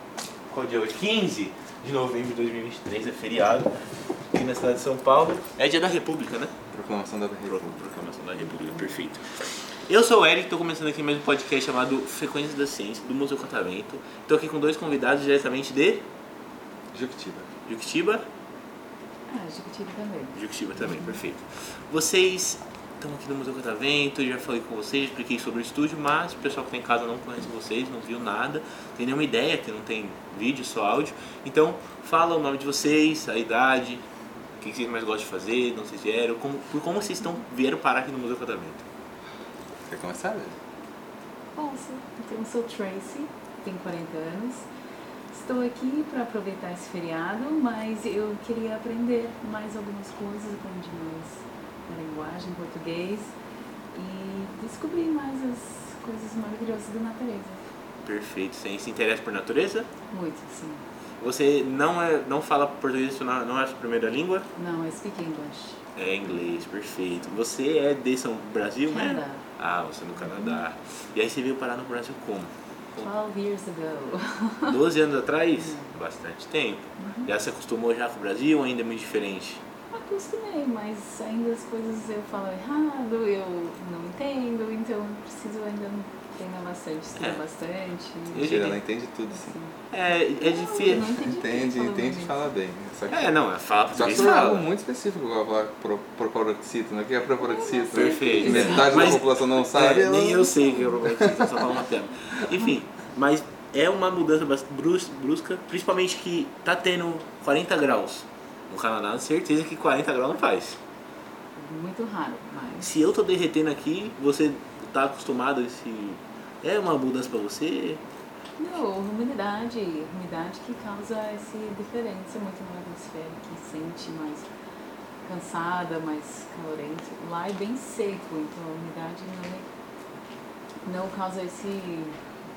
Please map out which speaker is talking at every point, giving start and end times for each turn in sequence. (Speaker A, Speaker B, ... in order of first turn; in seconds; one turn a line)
Speaker A: 0.5-3.7
Speaker A: 4.3-6.5
Speaker B: 6.7-7.8
Speaker A: 7.5-16.1
Speaker B: 16.9-17.5
Speaker A: 17.7-18.3
Speaker C: 19.3-21.2
Speaker A: 20.4-34.0
Speaker A: 34.6-38.8
Speaker B: 39.8-40.6
Speaker C: 41.6-44.7
Speaker C: 45.3-53.3
Speaker C: 53.9-57.6
Speaker A: 58.0-59.9
Speaker C: 60.1-60.8
Speaker A: 61.2-64.5
Speaker C: 64.5-65.8
Speaker A: 66.0-73.1
Speaker C: 68.9-69.4
Speaker C: 70.2-70.7
Speaker C: 73.0-74.8
Speaker A: 74.7-79.6
Speaker C: 75.5-75.9
Speaker C: 77.0-77.3
Speaker C: 79.9-88.5
Speaker A: 87.2-87.4
Speaker A: 88.3-88.8
Speaker B: 88.3-89.6
Speaker C: 89.3-89.8
Speaker A: 89.9-91.1
Speaker C: 90.3-92.5
Speaker B: 90.9-101.7
Speaker A: 93.1-94.7
Speaker C: 97.4-99.2
Speaker A: 97.9-110.8
Speaker C: 111.6-113.0
Speaker A: 112.8-118.0
Speaker C: 118.6-124.5
Speaker C: 125.2-129.7
Speaker C: 130.8-132.2